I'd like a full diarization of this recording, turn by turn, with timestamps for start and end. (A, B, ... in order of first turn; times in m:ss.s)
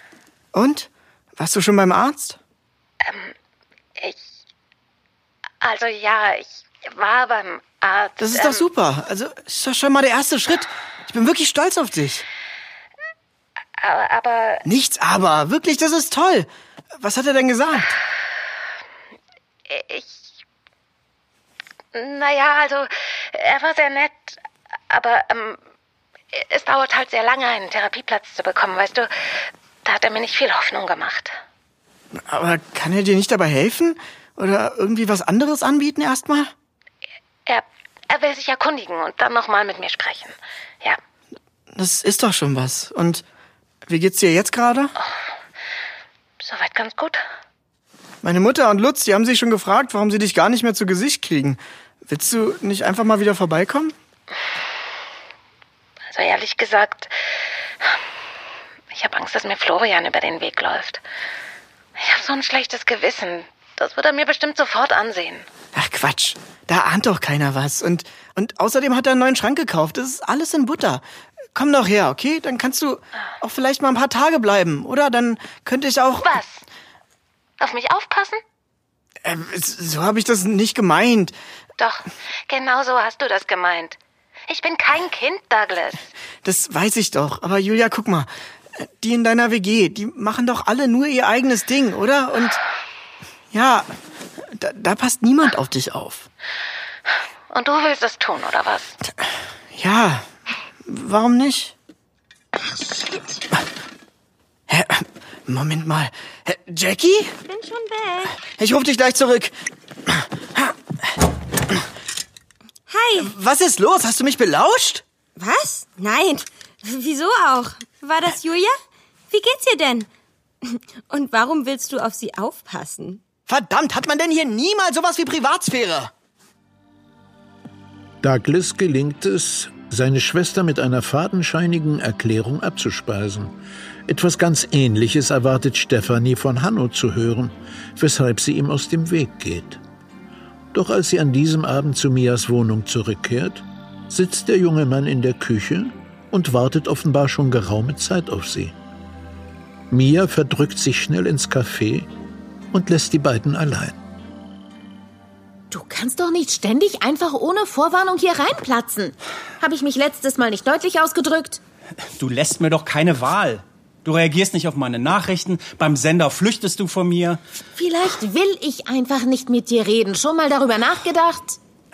0:00.5-0:02.4 A
0:03.0-0:03.3 B
0:05.6-0:08.6 B
0:08.2-0:12.2 A
0:13.8-0:14.6 B
0:14.6-0:16.5 A
0:17.0-0:18.0 A
0:19.7-0:20.1 B
0:22.0-0:24.4 B
0:24.9-0:25.6 B
0:26.3-0:29.1 B
0:29.8-0:31.3 B
0:32.3-0:36.5 A
0:37.5-0:41.0 B
0:41.8-0:43.2 A
0:43.9-0:44.9 A
0:46.4-0:47.2 B
0:48.2-0:53.9 A
0:56.1-0:57.1 B
0:58.9-1:01.0 B
1:02.0-1:05.5 B
1:05.7-1:11.0 A
1:11.6-1:16.4 A
1:16.2-1:16.6 B
1:17.6-1:18.4 B
1:19.2-1:21.4 A
1:21.8-1:24.0 B
1:24.5-1:26.0 B
1:26.4-1:28.3 A
1:28.8-1:32.6 A
1:33.5-1:33.9 A
1:34.6-1:36.3 A
1:37.5-1:39.0 B
1:39.8-1:40.2 A
1:40.9-1:41.7 A
1:44.7-1:47.3 A
1:47.5-1:48.4 C
1:48.4-1:49.5 A
1:50.1-1:50.7 A
1:52.9-1:53.3 C
1:53.2-1:55.0 A
1:55.4-1:58.7 C
1:59.3-2:00.1 C
2:00.7-2:03.2 C
2:03.5-2:06.1 A
2:08.2-2:13.5 D
2:14.1-2:19.8 D
2:20.8-2:23.6 D
2:24.1-2:28.7 D
2:29.9-2:32.0 D
2:32.8-2:33.9 D
2:35.7-2:41.6 E
2:42.2-2:47.4 F
2:47.8-2:51.6 E